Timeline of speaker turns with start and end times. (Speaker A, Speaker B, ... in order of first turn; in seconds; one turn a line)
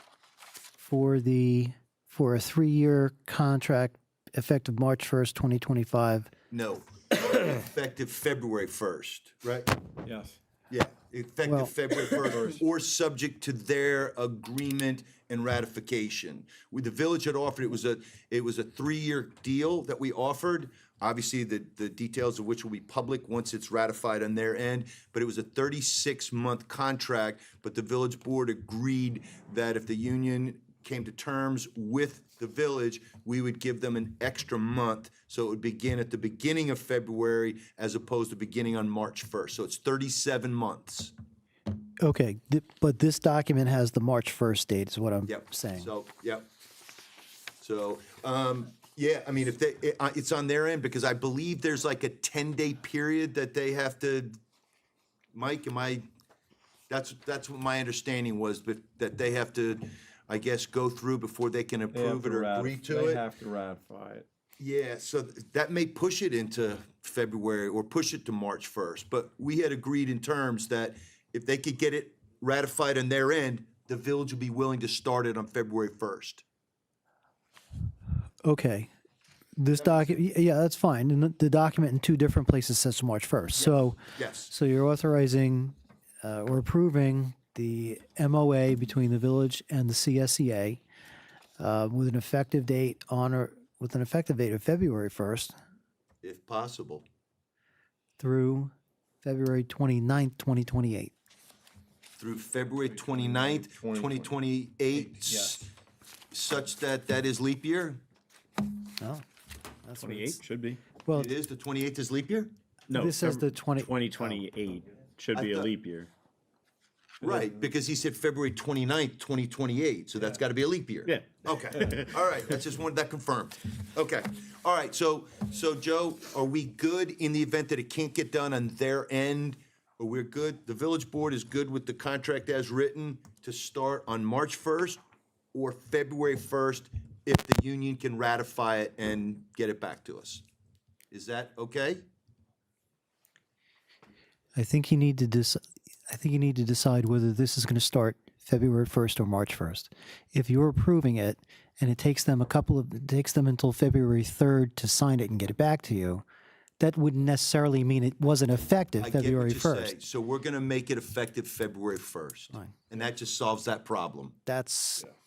Speaker A: 0.8-6.3
Speaker B: 6.5-9.8
Speaker C: 10.0-10.4
Speaker B: 10.7-41.1
Speaker A: 11.4-11.8
Speaker C: 12.2-12.6
Speaker A: 42.0-45.9
Speaker B: 45.3-46.5
Speaker B: 47.6-54.4
Speaker B: 55.3-56.0
Speaker B: 56.9-63.2
Speaker C: 61.9-64.3
Speaker B: 64.6-76.4
Speaker A: 78.4-78.9
Speaker A: 79.6-90.8
Speaker B: 79.8-80.2
Speaker B: 83.5-84.5
Speaker A: 91.6-95.5
Speaker B: 96.2-97.1
Speaker A: 98.2-101.1
Speaker B: 102.2-105.7
Speaker C: 102.8-104.3
Speaker C: 104.9-105.7
Speaker B: 106.3-108.0
Speaker A: 109.8-110.4
Speaker C: 110.0-110.8
Speaker A: 111.0-111.3
Speaker B: 111.1-112.5
Speaker C: 112.9-116.1
Speaker A: 112.9-114.5
Speaker B: 115.3-115.7
Speaker C: 117.2-117.7
Speaker B: 117.2-135.0
Speaker C: 121.1-122.2
Speaker B: 135.5-140.4
Speaker B: 141.1-142.0
Speaker A: 144.6-156.2
Speaker A: 156.8-159.9
Speaker B: 159.0-164.4
Speaker A: 164.5-165.1